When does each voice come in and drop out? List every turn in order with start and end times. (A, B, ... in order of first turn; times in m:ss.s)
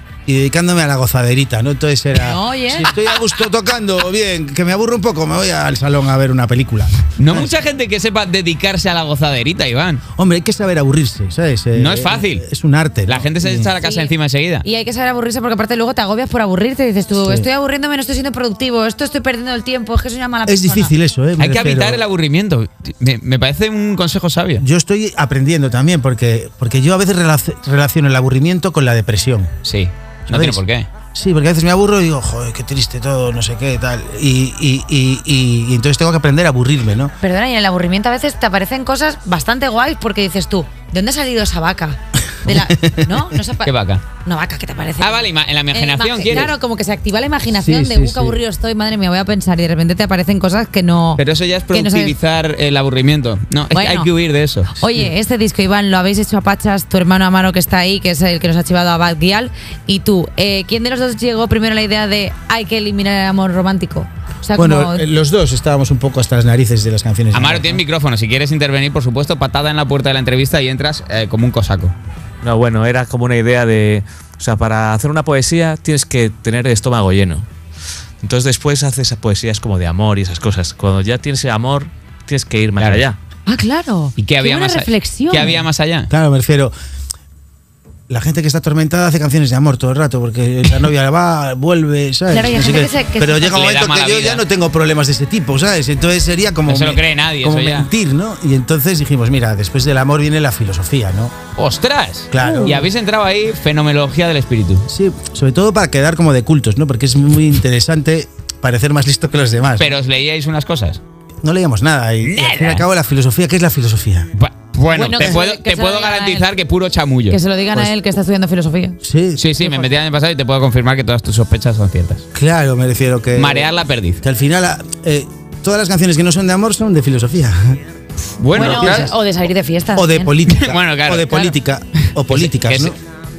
0:00.2-0:07.5 A
0:02.2-0:02.9 B
0:07.2-0:10.0 C
0:10.2-0:13.7 A
0:11.7-0:12.4 C
0:13.1-0:14.6 C
0:13.8-0:14.1 B
0:14.6-0:20.9 B
0:17.1-0:17.5 A
0:20.4-0:22.0 A
0:21.4-0:24.6 C
0:24.6-0:29.5 A
0:29.6-0:30.9 C
0:30.3-0:30.6 A
0:31.1-0:37.1 A
0:37.2-0:43.7 B
0:42.4-0:43.3 A
0:43.6-0:44.0 C
0:44.2-0:52.2 B
0:45.0-0:46.5 C
0:47.5-0:48.4 A
0:51.2-0:54.7 C
0:53.7-0:54.1 B
0:54.8-1:05.0 B
1:04.5-1:07.8 A
1:07.3-1:11.9 C
1:12.4-1:17.5 D
1:18.2-1:23.2 D
1:22.8-1:23.0 C
1:23.4-1:25.6 B
1:24.2-1:26.1 C
1:26.1-1:26.7 A
1:28.1-1:41.3 A
1:32.3-1:33.5 B
1:33.5-1:34.4 C
1:36.7-1:37.9 C
1:41.6-1:44.9 C
1:42.3-1:42.9 A
1:42.4-1:42.7 B
1:44.9-1:49.9 A
1:49.8-1:51.0 C
1:51.4-1:54.3 A
1:52.2-1:52.8 C
1:54.4-1:57.4 C
1:54.9-1:56.5 B
1:55.1-1:55.3 A
1:57.3-1:59.0 B
1:59.0-1:59.4 A
1:59.4-2:02.2 C
1:59.6-1:59.9 B
2:02.3-2:07.8 A
2:03.3-2:04.2 C
2:08.4-2:09.1 C
2:08.5-2:09.2 A
2:08.5-2:10.3 B
2:09.9-2:13.0 A
2:10.5-2:11.6 C
2:12.2-2:13.0 C